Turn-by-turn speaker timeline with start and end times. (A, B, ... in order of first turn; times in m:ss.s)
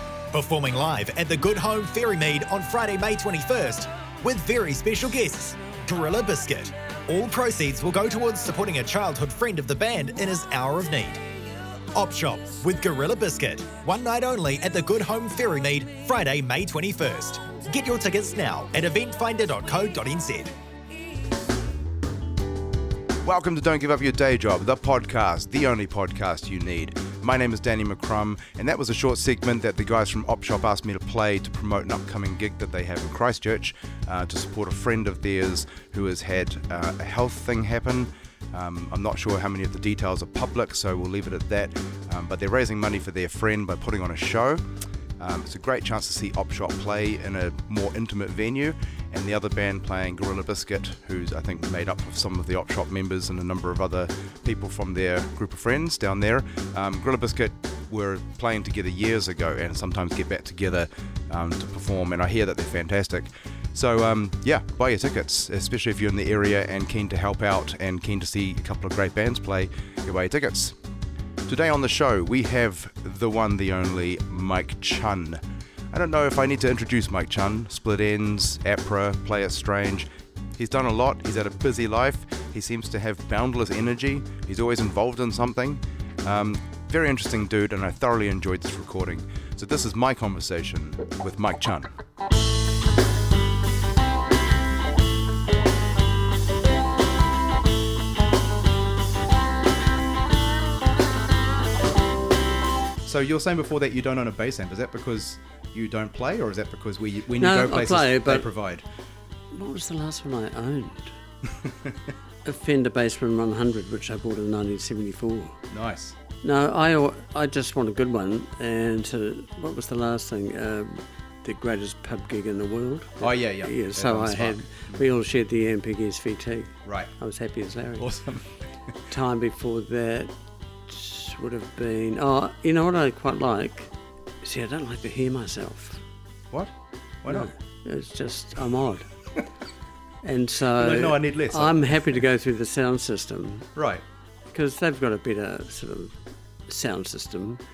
0:00.3-0:11.2 A
0:11.9-0:20.5 A
0:23.2-0:44.6 B
0:45.2-1:10.8 B
1:11.4-1:31.9 B
1:43.0-1:48.8 B
1:47.4-1:48.5 C
1:49.5-1:51.2 C
1:51.6-1:52.0 B
1:52.4-1:55.6 C
1:55.7-1:56.2 B
1:56.4-2:08.1 C
2:03.2-2:05.0 B
2:06.8-2:07.1 B
2:08.0-2:08.6 B
2:09.1-2:10.3 C
2:10.9-2:13.9 C
2:14.4-2:16.0 C
2:17.2-2:17.5 B
2:17.3-2:19.1 C
2:20.2-2:23.7 C
2:20.8-2:22.2 B
2:23.8-2:24.0 B
2:24.5-2:26.2 C
2:26.7-2:27.6 C